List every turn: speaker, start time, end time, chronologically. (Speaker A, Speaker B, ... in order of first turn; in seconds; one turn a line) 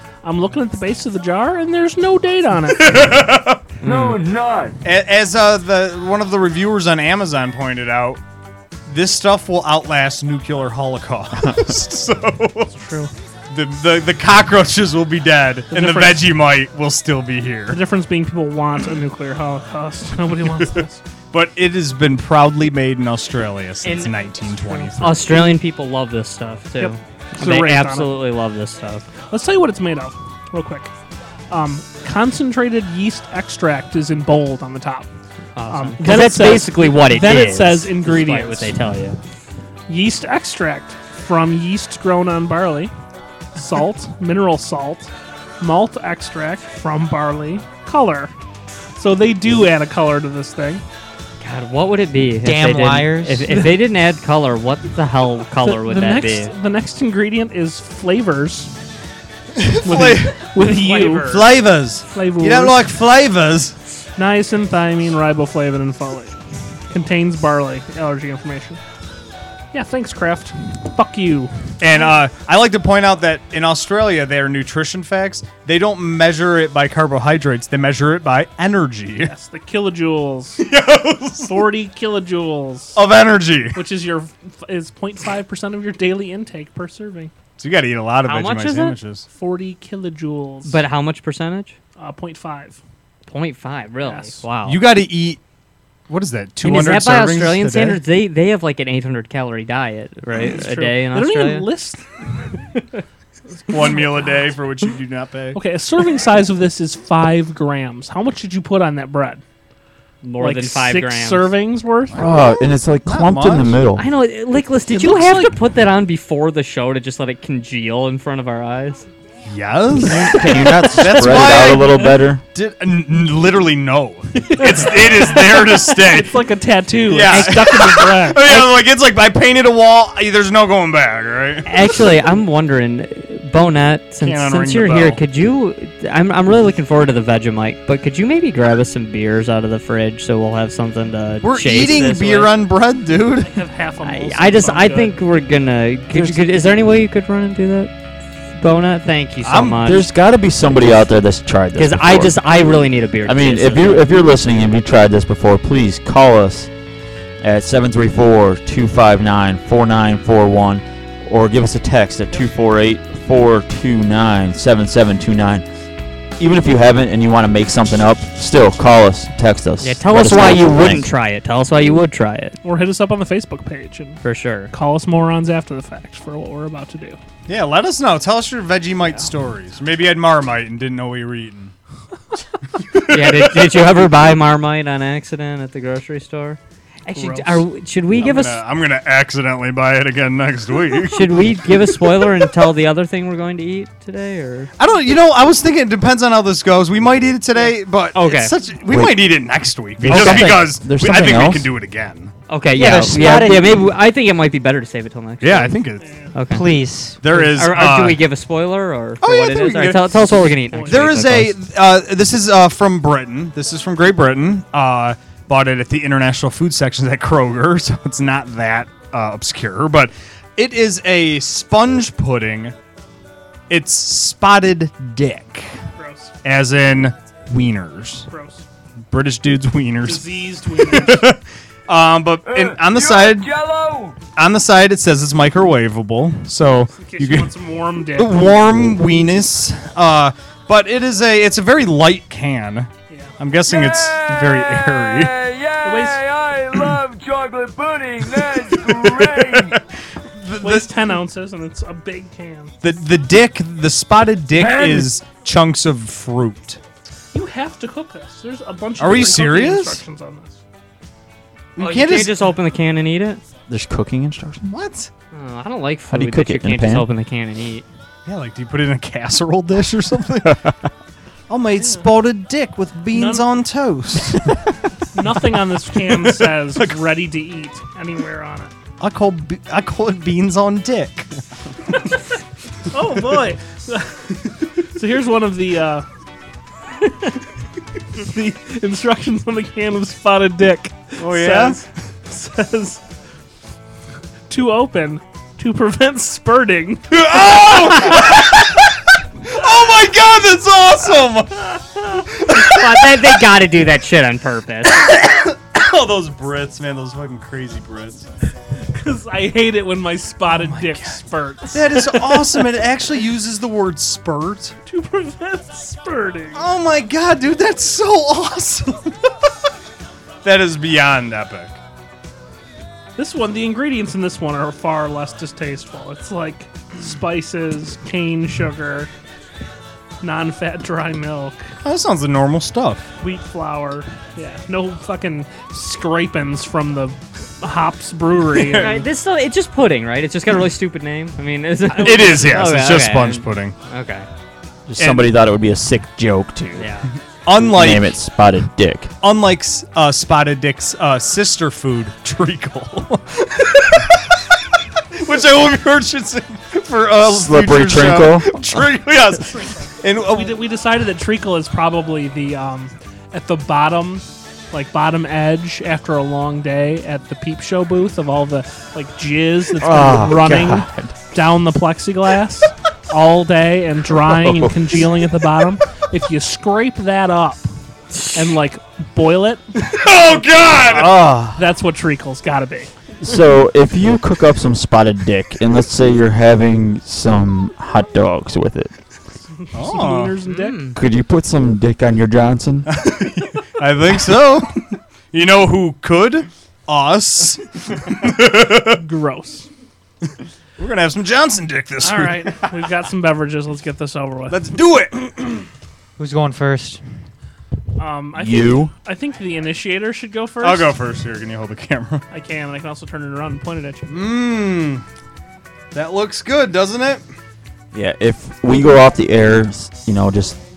Speaker A: 0.2-3.3
Speaker B: 2.8-3.6
Speaker C: 3.8-4.2
Speaker D: 3.8-4.8
Speaker B: 4.8-8.2
Speaker B: 8.9-12.7
Speaker A: 12.8-13.1
Speaker B: 13.5-17.8
Speaker A: 15.7-16.4
Speaker A: 17.7-21.0
Speaker B: 21.3-25.1
Speaker C: 23.8-24.1
Speaker A: 24.6-24.9
Speaker C: 25.0-29.1
Speaker A: 26.8-28.2
Speaker A: 29.3-30.9
Speaker A: 31.5-35.1
Speaker C: 35.6-39.2
Speaker A: 35.7-38.8
Speaker A: 39.9-42.9
Speaker A: 43.6-48.3
Speaker A: 49.0-50.8
Speaker C: 51.4-56.5
Speaker E: 52.4-53.5
Speaker A: 55.6-58.7
Speaker B: 59.6-60.5
Speaker A: 59.9-61.4
Speaker C: 60.6-61.4
Speaker B: 61.2-63.8
Speaker A: 62.1-62.9
Speaker A: 64.2-66.4
Speaker A: 66.9-68.8
Speaker A: 69.7-71.6
Speaker B: 71.8-79.3
Speaker A: 79.2-80.7
Speaker B: 80.6-81.7
Speaker A: 81.5-83.0
Speaker B: 83.0-83.8
Speaker A: 83.8-87.3
Speaker B: 87.6-89.3
Speaker C: 88.2-89.0
Speaker A: 89.3-90.8
Speaker C: 90.7-91.8
Speaker A: 92.0-92.8
Speaker C: 93.3-94.8
Speaker A: 94.0-94.4
Speaker B: 94.7-95.4
Speaker B: 96.1-98.0
Speaker C: 96.6-101.7
Speaker A: 100.5-102.8
Speaker A: 103.6-104.1
Speaker B: 103.7-105.6
Speaker A: 105.5-109.4
Speaker C: 110.2-111.5
Speaker A: 110.4-112.3
Speaker F: 112.2-114.1
Speaker B: 113.0-113.8
Speaker C: 114.0-119.1
Speaker A: 114.9-115.5
Speaker B: 119.5-126.4
Speaker F: 120.0-122.4
Speaker A: 124.5-128.7
Speaker B: 127.1-131.7
Speaker C: 127.3-127.6
Speaker C: 131.7-142.5
Speaker B: 134.2-135.2
Speaker B: 141.4-143.6
Speaker A: 143.4-145.2
Speaker C: 144.0-147.9
Speaker F: 146.1-146.6
Speaker C: 148.6-150.1
Speaker B: 149.4-149.8
Speaker F: 149.8-152.4
Speaker C: 151.8-154.1
Speaker F: 153.2-156.7
Speaker F: 157.4-165.7
Speaker F: 166.4-171.1
Speaker C: 169.8-172.6
Speaker A: 172.6-174.2
Speaker C: 174.2-174.7
Speaker A: 174.7-177.2
Speaker B: 177.5-181.7
Speaker B: 183.0-183.7
Speaker C: 183.1-188.6
Speaker A: 187.1-187.6
Speaker B: 188.2-191.5
Speaker C: 191.1-194.7
Speaker B: 194.8-202.3
Speaker C: 198.1-198.5
Speaker F: 198.9-199.3
Speaker F: 200.0-201.7
Speaker E: 200.1-200.5
Speaker C: 202.5-205.8
Speaker E: 202.8-203.9
Speaker F: 202.9-203.5
Speaker B: 205.4-206.1
Speaker A: 206.0-206.4
Speaker C: 206.3-206.7
Speaker E: 206.5-207.2
Speaker B: 207.2-208.2
Speaker C: 207.2-211.6
Speaker B: 209.2-210.2
Speaker A: 210.7-211.2
Speaker B: 210.9-222.7
Speaker B: 223.7-225.8
Speaker A: 226.0-226.3
Speaker B: 226.4-228.3
Speaker A: 228.3-228.7
Speaker B: 229.1-233.5
Speaker A: 230.0-231.3
Speaker D: 232.4-234.2
Speaker B: 234.3-237.5
Speaker A: 237.0-238.5
Speaker B: 238.2-245.3
Speaker A: 243.1-243.3
Speaker D: 243.7-249.8
Speaker A: 245.8-246.2
Speaker B: 248.4-249.8
Speaker B: 250.4-251.0
Speaker A: 250.6-252.8
Speaker B: 252.8-256.8
Speaker D: 254.5-255.1
Speaker A: 257.3-260.6
Speaker B: 259.0-260.0
Speaker B: 261.8-262.5
Speaker C: 261.8-263.4
Speaker F: 263.7-264.7
Speaker B: 264.7-265.1
Speaker C: 265.3-267.9
Speaker F: 266.1-267.1
Speaker B: 268.2-270.6
Speaker B: 271.5-274.4
Speaker A: 271.8-272.1
Speaker A: 273.1-273.5
Speaker A: 275.1-278.7
Speaker B: 275.9-277.0
Speaker B: 279.0-281.3
Speaker A: 282.9-286.1
Speaker A: 287.0-287.4
Speaker A: 288.2-293.0
Speaker B: 291.2-291.9
Speaker A: 294.5-298.4
Speaker B: 297.1-298.9
Speaker B: 299.5-303.3
Speaker C: 302.4-305.1
Speaker B: 304.9-308.3
Speaker A: 308.9-312.7
Speaker B: 310.5-314.8
Speaker A: 314.9-316.7
Speaker B: 316.6-319.2
Speaker B: 320.4-321.8
Speaker A: 323.2-329.1
Speaker A: 330.2-331.7
Speaker B: 331.8-333.1
Speaker A: 333.2-339.1
Speaker C: 338.6-344.3
Speaker B: 341.9-343.8
Speaker F: 344.9-346.9
Speaker B: 345.0-345.3
Speaker C: 346.8-347.1
Speaker B: 347.5-348.1
Speaker F: 347.6-349.1
Speaker B: 349.2-354.4
Speaker B: 355.1-360.7
Speaker F: 357.2-358.8
Speaker A: 360.3-377.7
Speaker F: 369.8-371.1
Speaker F: 374.2-374.8
Speaker A: 378.3-379.6
Speaker B: 379.8-381.6
Speaker A: 380.9-382.9
Speaker F: 383.2-388.9
Speaker A: 389.7-390.9
Speaker B: 389.7-390.4
Speaker C: 390.5-391.0
Speaker F: 391.0-392.9
Speaker B: 392.9-394.8
Speaker B: 395.3-399.0
Speaker A: 398.9-399.7
Speaker B: 400.8-402.7
Speaker A: 402.0-404.6
Speaker B: 404.5-405.6
Speaker E: 406.2-407.0
Speaker A: 408.0-410.9
Speaker F: 408.4-408.9
Speaker B: 410.6-412.2
Speaker A: 412.3-414.1
Speaker B: 414.1-415.1
Speaker B: 415.9-417.2
Speaker F: 417.9-420.6